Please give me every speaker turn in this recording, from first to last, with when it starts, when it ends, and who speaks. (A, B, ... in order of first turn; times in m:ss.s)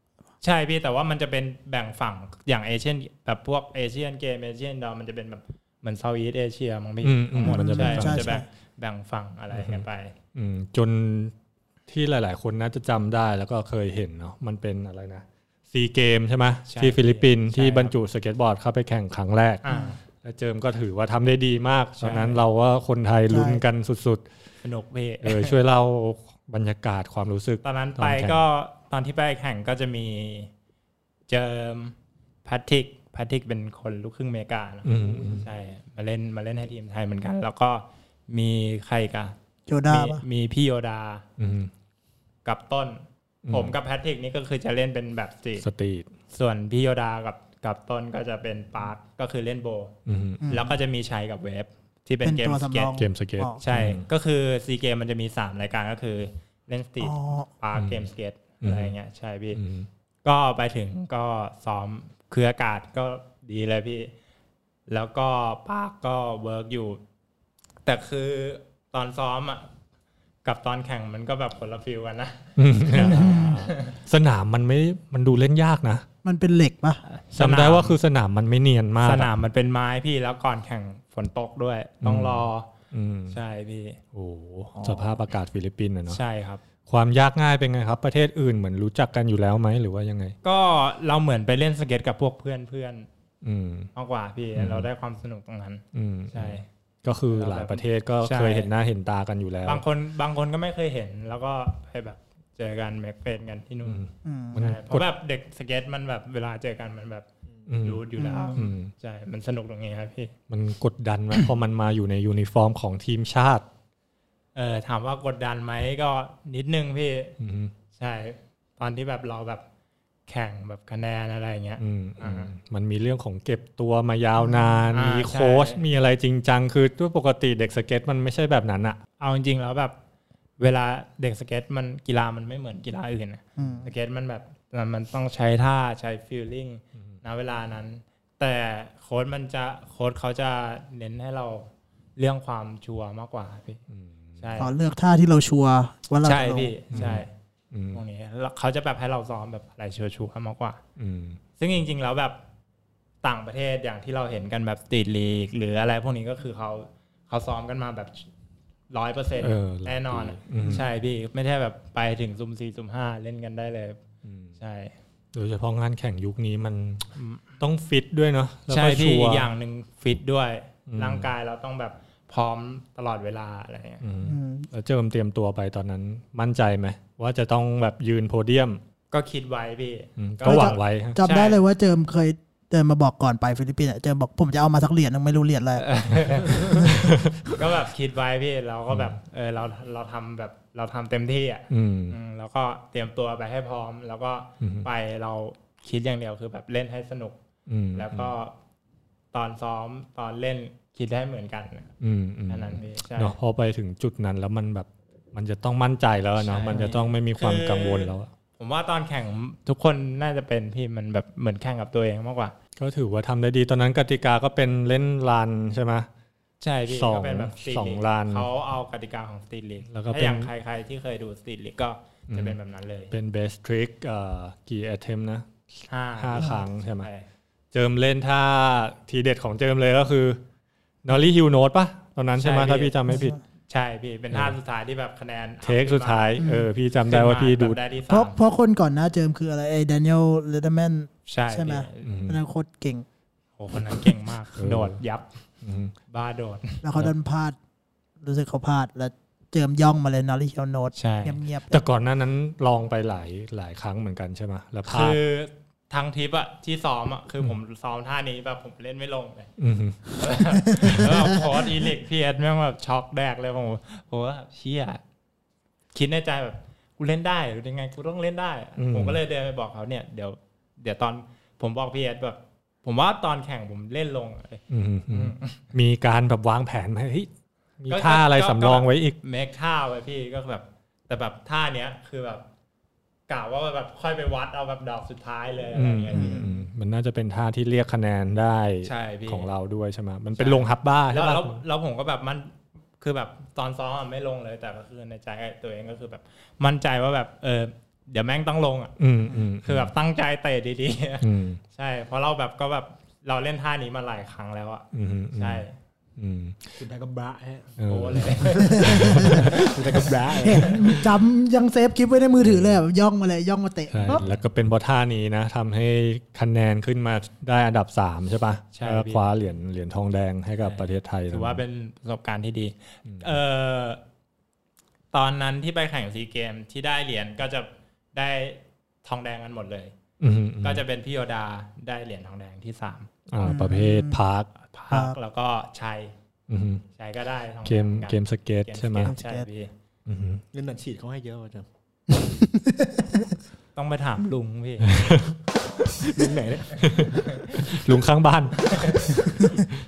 0:00.4-0:10.1 A
0:07.0-0:08.3 B
0:07.4-0:08.4 C
0:09.5-0:11.3 B
0:11.9-0:19.6 B
0:16.7-0:17.9 A
0:19.6-0:20.0 A
0:19.7-0:19.9 C
0:20.2-0:24.2 B
0:22.0-0:22.4 A
0:23.3-0:23.6 C
0:24.6-0:25.6 A
0:25.2-0:28.4 B
0:27.6-0:30.5 A
0:31.3-0:39.3 A
0:34.8-0:35.5 B
0:39.7-0:40.2 C
0:39.9-0:41.2 A
0:41.4-0:41.7 B
0:42.4-0:45.6 A
0:43.4-0:43.8 B
0:45.6-0:46.1 B
0:46.3-0:50.0 A
0:50.0-0:50.5 B
0:50.4-0:50.7 C
0:50.5-0:53.0 A
0:52.2-0:53.6 C
0:53.0-0:54.0 B
0:53.6-0:59.6 A
0:57.0-0:57.5 C
0:57.7-0:58.1 B
0:58.6-0:58.9 B
0:59.5-0:59.9 B
1:00.2-1:04.1 A
1:04.9-1:07.0 A
1:07.8-1:09.7 A
1:10.4-1:14.0 A
1:12.6-1:16.0 B
1:13.0-1:13.6 C
1:16.2-1:17.0 C
1:17.0-1:18.0 A
1:17.4-1:19.3 B
1:19.0-1:22.7 A
1:22.0-1:23.4 B
1:23.3-1:24.0 A
1:24.1-1:26.2 B
1:24.8-1:25.1 C
1:26.1-1:26.6 A
1:26.9-1:30.4 B
1:30.4-1:33.1 A
1:33.4-1:33.9 B
1:33.9-1:36.6 A
1:34.6-1:34.9 B
1:35.9-1:39.8 B
1:37.3-1:38.7 A
1:39.6-1:44.0 A
1:43.8-1:45.0 B
1:44.2-1:44.7 C
1:44.6-1:47.2 A
1:47.7-1:48.9 B
1:47.8-1:50.3 A
1:48.2-1:48.6 C
1:50.5-1:53.6 B
1:54.5-1:57.3 A
1:57.4-1:57.7 B
1:58.0-1:59.6 A
2:00.3-2:02.5 A
2:01.8-2:09.0 B
2:04.4-2:04.8 C
2:04.9-2:05.8 A
2:09.2-2:09.9 A
2:10.6-2:23.8 A
2:13.6-2:13.9 C
2:23.9-2:24.5 B
2:24.4-2:24.7 A
2:24.6-2:27.1 C
2:26.2-2:27.3 A
2:26.9-2:28.0 B
2:27.9-2:30.8 A
2:31.0-2:31.4 B
2:31.6-2:32.4 A
2:33.2-2:38.3 A
2:38.9-2:44.0 A
2:39.4-2:40.8 B
2:44.2-2:44.5 B
2:44.6-2:44.9 A
2:45.3-2:47.1 B
2:47.2-2:47.6 A
2:47.6-2:49.5 B
2:48.7-2:54.0 A
2:50.9-2:51.3 B
2:54.0-2:58.8 B
2:54.2-2:54.7 C
2:59.1-3:01.6 A
3:00.2-3:01.2 B
3:00.4-3:06.9 C
3:05.8-3:17.4 A
3:06.7-3:07.4 B
3:11.7-3:12.2 B
3:14.6-3:14.9 B
3:17.7-3:18.3 B
3:17.9-3:18.5 A
3:19.3-3:21.9 A
3:22.0-3:28.3 B
3:22.5-3:23.4 A
3:26.4-3:32.5 A
3:32.8-3:36.1 B
3:36.6-3:43.1 A
3:36.9-3:38.5 B
3:39.9-3:40.5 B
3:42.3-3:42.6 B
3:43.1-3:45.6 B
3:45.9-3:47.2 A
3:46.2-3:47.1 B
3:47.7-3:50.4 B
3:51.0-3:53.4 B
3:52.4-3:52.9 A
3:53.1-3:53.4 C
3:53.7-3:56.4 A
3:54.3-3:54.6 B
3:55.6-3:57.8 B
3:56.4-3:56.7 C
3:57.1-3:58.4 A
3:58.1-4:03.0 C
4:01.3-4:02.1 A
4:02.0-4:02.4 B
4:03.6-4:05.2 A
4:04.6-4:05.0 B
4:05.6-4:05.9 B
4:06.1-4:07.1 A
4:06.8-4:07.6 C
4:08.2-4:11.8 C
4:10.9-4:11.4 A
4:11.7-4:15.2 B
4:14.8-4:19.5 A
4:19.6-4:20.0 B
4:20.1-4:25.0 A
4:20.8-4:21.1 B
4:25.9-4:35.7 A
4:28.8-4:29.2 B
4:34.7-4:39.2 B
4:37.9-4:42.4 A
4:43.3-4:46.5 A
4:45.7-4:51.6 B
4:46.1-4:46.4 D
4:48.8-4:49.5 A
4:50.3-4:59.0 A
4:59.0-4:59.9 B
4:59.6-5:05.8 A
5:01.2-5:01.6 B
5:04.9-5:05.6 B
5:06.2-5:06.8 B
5:06.8-5:07.7 D
5:07.8-5:09.7 B
5:07.8-5:09.1 A
5:08.4-5:11.2 D
5:08.6-5:09.7 C
5:09.9-5:10.6 A
5:10.4-5:14.2 C
5:12.4-5:12.8 B
5:13.9-5:21.6 B
5:14.1-5:14.4 A
5:18.7-5:19.3 A
5:20.6-5:24.0 A
5:25.1-5:29.9 A
5:30.2-5:30.8 B
5:30.6-5:33.1 A
5:33.3-5:34.5 B
5:33.4-5:34.2 C
5:34.6-5:36.1 A
5:36.5-5:36.8 B
5:37.0-5:39.7 A
5:37.6-5:39.1 B
5:39.0-5:39.4 C
5:40.0-5:40.4 B
5:40.5-5:41.7 D
5:42.4-5:43.0 C
5:43.7-5:45.0 A
5:44.8-5:45.4 B
5:46.0-5:47.2 D
5:46.8-5:49.3 B
5:48.8-5:49.1 A